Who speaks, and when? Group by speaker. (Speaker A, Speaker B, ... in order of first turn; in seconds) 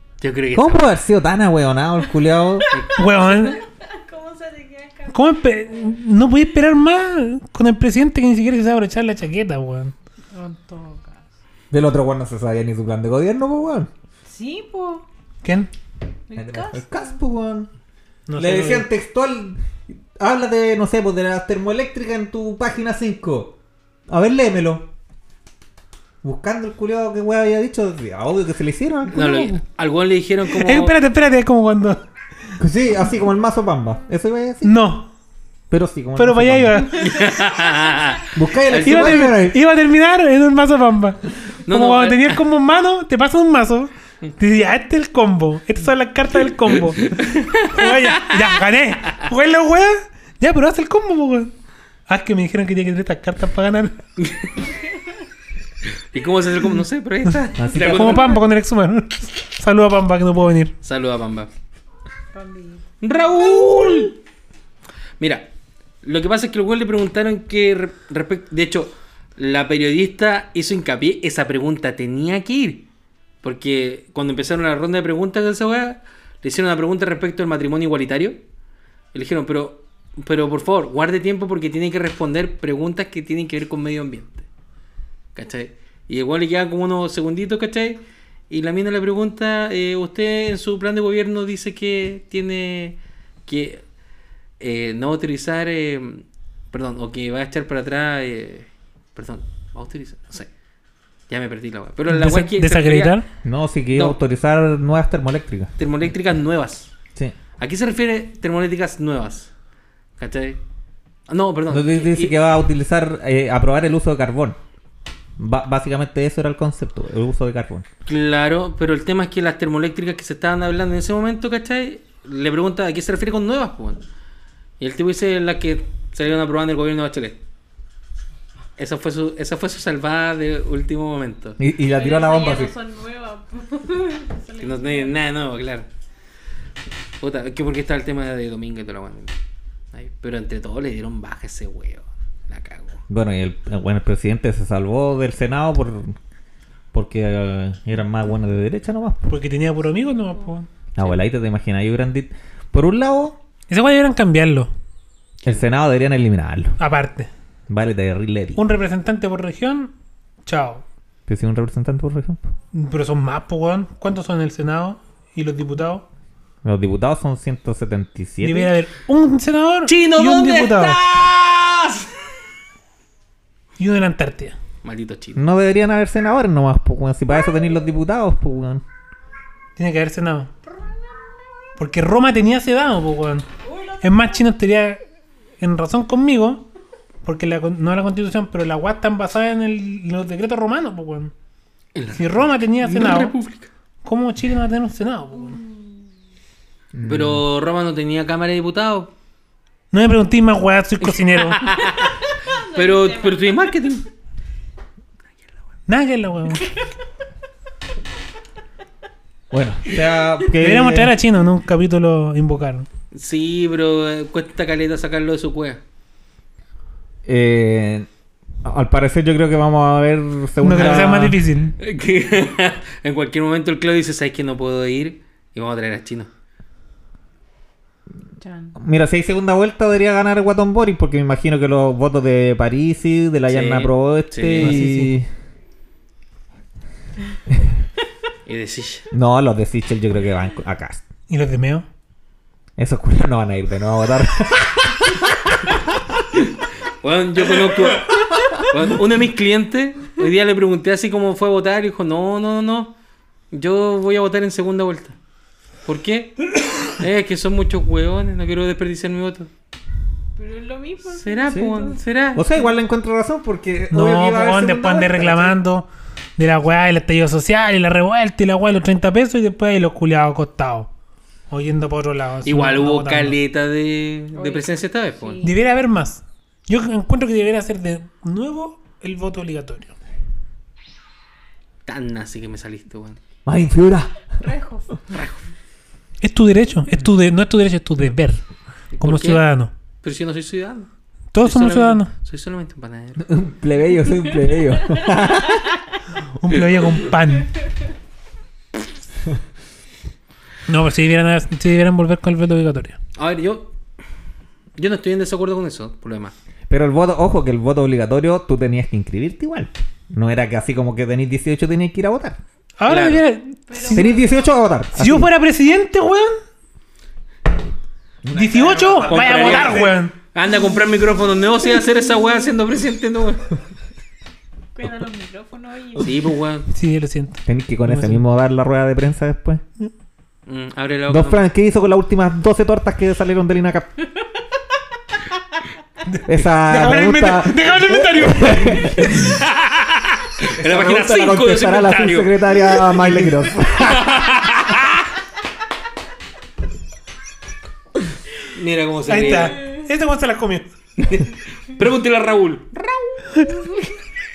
Speaker A: 0.2-0.9, 2.7-3.5, 29.1-31.0, 37.0-39.2, 41.6-42.4, 47.0-48.3, 54.2-54.5, 56.1-58.4, 60.8-61.5, 63.0-64.2, 65.2-65.5, 66.0-72.9, 73.4-78.4, 79.1-84.5, 85.3-93.8, 94.6-100.5, 101.3-103.2, 105.8-106.9, 107.6-109.5, 110.2-110.6, 111.3-112.3, 118.0-124.0, 124.8-127.4, 128.8-131.6, 134.6-135.9, 137.2-139.3, 139.9-143.0, 169.9-172.1, 174.8-175.4, 191.9-193.7, 197.1-199.1, 201.1-202.2, 202.7-204.1, 213.1-215.8, 221.8-226.3, 233.5-234.8, 238.4-239.1, 246.4-252.9, 253.5-255.2, 255.8-259.5, 261.1-262.4, 272.4-275.4, 281.9-283.2, 285.1-285.5, 288.9-289.4, 290.0-293.2, 303.1-303.7, 304.8-306.3, 312.9-313.2, 319.0-323.5, 326.0-326.7, 330.4-331.4, 339.2-345.1, 348.5-349.7, 351.0-353.3
Speaker B: 0.5-2.7, 11.7-13.9, 16.3-17.7, 18.4-23.6, 24.1-24.9, 26.2-29.6, 32.6-34.8, 35.7-36.9, 38.3-39.6, 57.5-58.3, 103.4-105.7, 111.7-114.6, 115.4-117.8, 131.6-132.7, 143.1-146.2, 146.9-149.3, 150.9-153.4, 155.4-156.8, 157.7-158.6, 161.3-162.5, 166.6-168.7, 175.3-178.8, 196.9-197.4, 209.5-211.2, 217.2-218.1, 218.6-221.4, 228.7-235.3, 237.5-237.7, 239.1-241.0, 242.8-246.1, 261.5-261.8, 262.3-265.6, 283.4-284.3, 293.2-295.7, 306.7-312.4, 313.8-315.3, 318.2-320.0, 327.4-329.6, 331.1-333.9, 336.2-339.4, 340.5-344.3
Speaker C: 2.6-6.0, 10.3-11.2, 14.2-15.1, 16.3-17.1, 62.3-62.8, 131.9-135.2, 183.6-184.3, 195.4-196.0, 202.4-203.8, 228.4-228.8, 260.4-262.8, 274.3-275.6, 284.4-285.1, 313.7-314.3, 324.7-326.1
Speaker D: 3.0-3.6, 5.1-9.9, 15.4-15.7, 18.3-18.9, 30.5-32.0, 34.6-35.1, 36.1-37.3, 38.7-51.5, 52.1-54.0, 57.2-60.7, 102.1-103.2, 149.3-150.7, 153.7-154.7, 156.8-157.3, 158.6-159.9, 160.4-160.8, 162.7-166.1, 168.4-171.0, 173.8-174.6, 179.8-180.5, 181.8-183.5, 184.0-185.0, 185.6-186.7, 187.2-191.3, 192.1-193.3, 194.0-195.6, 199.9-201.7, 205.9-206.7, 210.5-212.9, 220.6-221.8, 234.6-235.1, 241.3-241.8, 263.9-270.9, 271.5-273.4, 275.4-279.9, 286.2-288.4, 289.0-289.7, 291.3-292.1, 296.4-297.5, 300.7-303.0, 312.8-314.1, 314.9-316.4, 318.3-320.1, 326.7-328.2, 336.1-339.4, 349.1-350.6